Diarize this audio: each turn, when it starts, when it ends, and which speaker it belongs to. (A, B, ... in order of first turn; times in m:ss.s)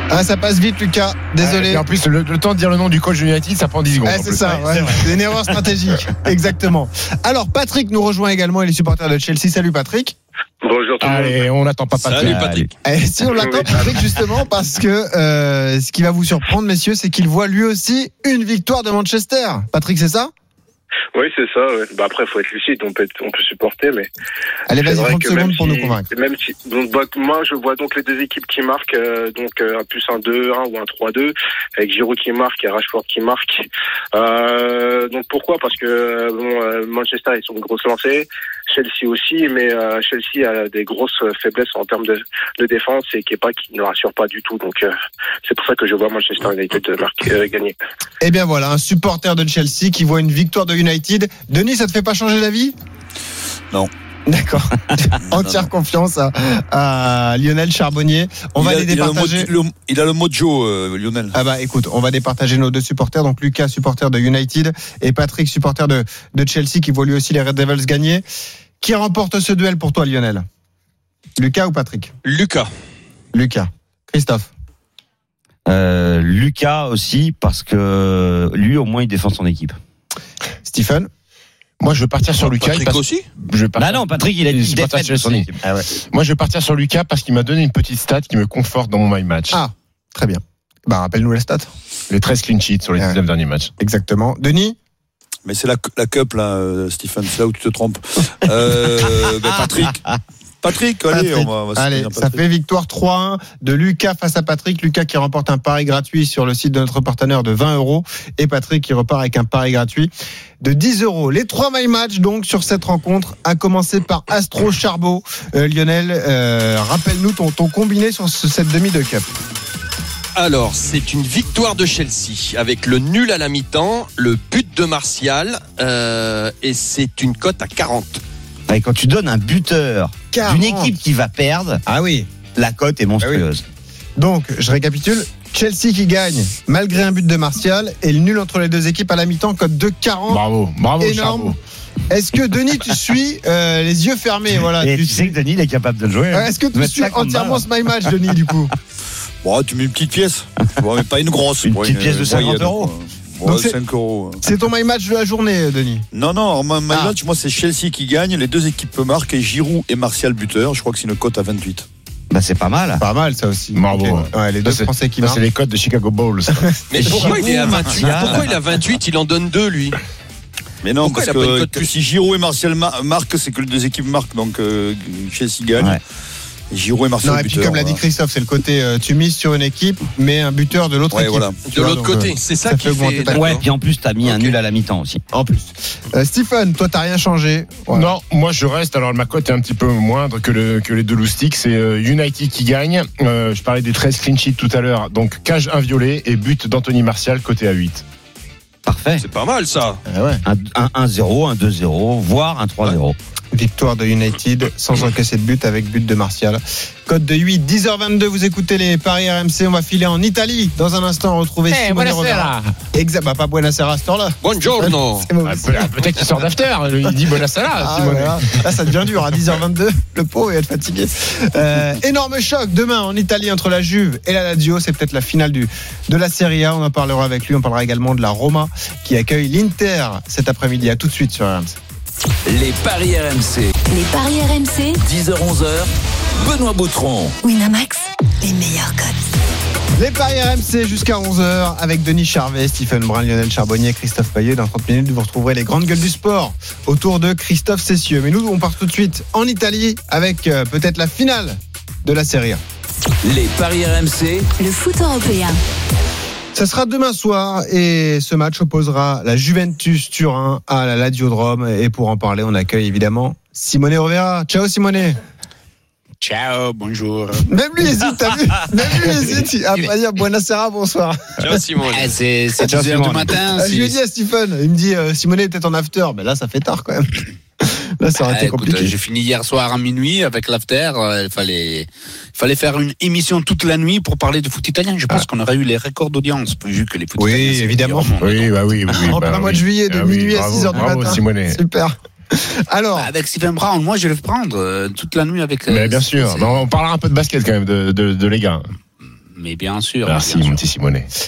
0:00.1-0:01.8 A
0:01.4-0:05.0 B
0:04.0-0:10.2 A
0:04.7-0:05.1 C
0:10.6-0:11.4 D
0:11.0-0:12.5 B
0:12.0-0:12.7 E
0:12.2-0:12.7 C
0:12.8-0:20.3 A
0:13.4-0:13.8 D
0:21.2-0:24.1 D
0:24.7-0:26.1 A
0:24.8-0:44.9 D
0:45.4-0:47.8 D
0:48.2-0:52.8 A
0:54.3-0:59.5 A
0:58.6-1:01.4 F
1:01.3-1:08.2 A
1:08.8-1:10.4 A
1:11.4-1:12.1 A
1:12.2-1:12.7 E
1:13.3-1:14.5 A
1:15.7-1:19.8 C
1:20.6-1:21.1 A
1:21.8-1:29.6 B
1:22.5-1:23.3 E
1:23.8-1:25.5 C
1:29.5-1:31.7 A
1:32.1-1:33.7 B
1:33.8-1:34.8 A
1:35.4-1:40.0 F
1:40.6-1:42.4 F
1:41.1-1:59.3 A
2:00.4-2:08.2 E
2:08.7-2:11.8 C
2:10.3-2:10.9 A
2:11.9-2:12.3 A
2:12.6-2:13.6 C
2:14.2-2:20.4 A
2:20.3-2:21.6 B
2:21.0-2:21.6 A
2:22.1-2:25.3 A
2:24.8-2:27.7 C
2:26.3-2:28.8 A
2:29.4-2:34.4 F
2:31.6-2:32.9 C
2:33.4-2:33.8 A
2:34.4-2:36.1 A
2:36.1-2:41.9 F
2:42.3-2:43.0 C
2:43.0-2:45.4 A
2:43.8-2:47.1 B
2:46.9-2:50.0 E
2:47.0-2:48.5 C
2:47.1-2:47.6 A
2:50.8-2:56.0 F
2:51.0-2:51.9 E
2:56.7-2:58.0 F
2:57.2-3:03.6 A
3:01.1-3:01.6 F
3:01.7-3:03.6 E
3:03.3-3:05.2 C
3:04.2-3:04.6 E
3:05.3-3:08.1 A
3:07.9-3:18.0 B
3:18.8-3:19.2 C
3:19.2-3:20.0 E
3:20.1-3:20.4 A
3:20.4-3:23.2 C
3:23.5-3:36.0 A
3:31.7-3:32.7 B
3:34.4-3:35.3 E
3:35.4-3:38.6 B
3:37.8-3:51.8 A
3:52.5-3:53.7 G
3:53.9-3:55.0 H
3:55.0-3:57.4 G
3:57.4-3:59.2 H
4:00.0-4:12.6 A
4:13.2-4:14.5 G
4:14.6-4:15.6 H
4:16.5-4:25.2 A
4:26.2-4:27.5 I
4:27.5-4:31.5 A
4:31.4-4:32.1 E
4:31.8-4:34.0 I
4:32.6-4:33.4 C
4:33.6-4:38.9 A
4:38.2-4:49.1 I
4:47.2-4:48.1 A
4:48.2-4:51.6 B
4:49.1-4:53.1 A
4:53.0-4:56.6 I
4:55.7-4:58.6 B
4:59.4-5:00.6 I
5:00.1-5:01.1 B